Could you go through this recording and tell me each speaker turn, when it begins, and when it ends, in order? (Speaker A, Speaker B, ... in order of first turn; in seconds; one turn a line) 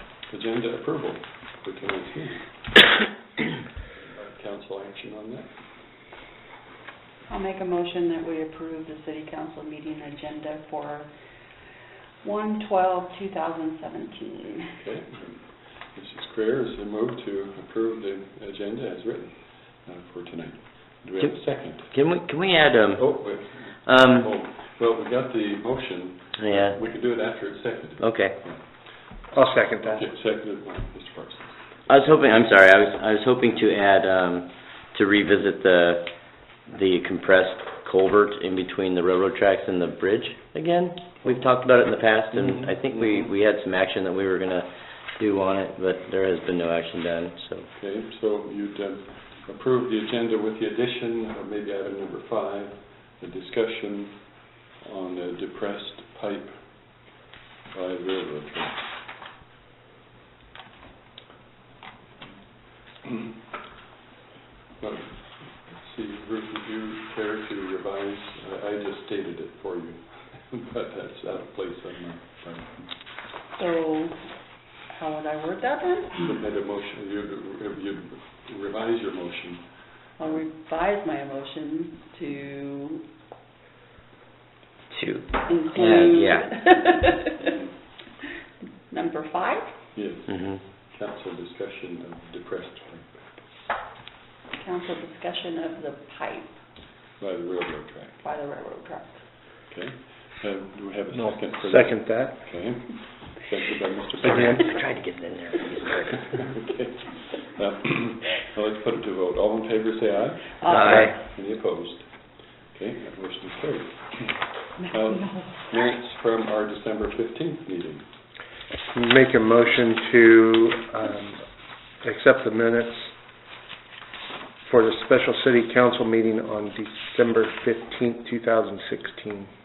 Speaker A: 0.3-2.9
Speaker A: 3.9-5.6
Speaker B: 7.2-11.3
Speaker B: 12.2-14.8
Speaker A: 14.8-22.0
Speaker C: 21.2-24.3
Speaker A: 22.9-31.8
Speaker C: 26.4-26.8
Speaker C: 28.0-28.4
Speaker D: 29.3-30.0
Speaker C: 31.9-47.7
Speaker A: 41.2-41.5
Speaker A: 42.4-42.7
Speaker A: 47.8-57.1
Speaker A: 57.7-58.9
Speaker A: 62.8-63.3
Speaker A: 64.8-73.1
Speaker B: 73.5-74.2
Speaker B: 74.7-76.3
Speaker A: 76.2-80.4
Speaker B: 80.2-83.0
Speaker C: 84.9-86.8
Speaker B: 85.4-87.6
Speaker B: 88.9-89.8
Speaker A: 89.9-93.5
Speaker C: 90.3-90.6
Speaker B: 94.5-96.6
Speaker A: 97.2-98.2
Speaker B: 98.2-99.2
Speaker A: 99.7-104.6
Speaker D: 101.1-102.5
Speaker D: 104.2-104.7
Speaker C: 104.2-106.3
Speaker A: 106.3-118.0
Speaker B: 110.6-111.2
Speaker C: 110.7-111.2
Speaker B: 114.8-115.6
Speaker D: 118.9-121.4
Speaker D: 122.0-123.1
Speaker D: 124.6-129.5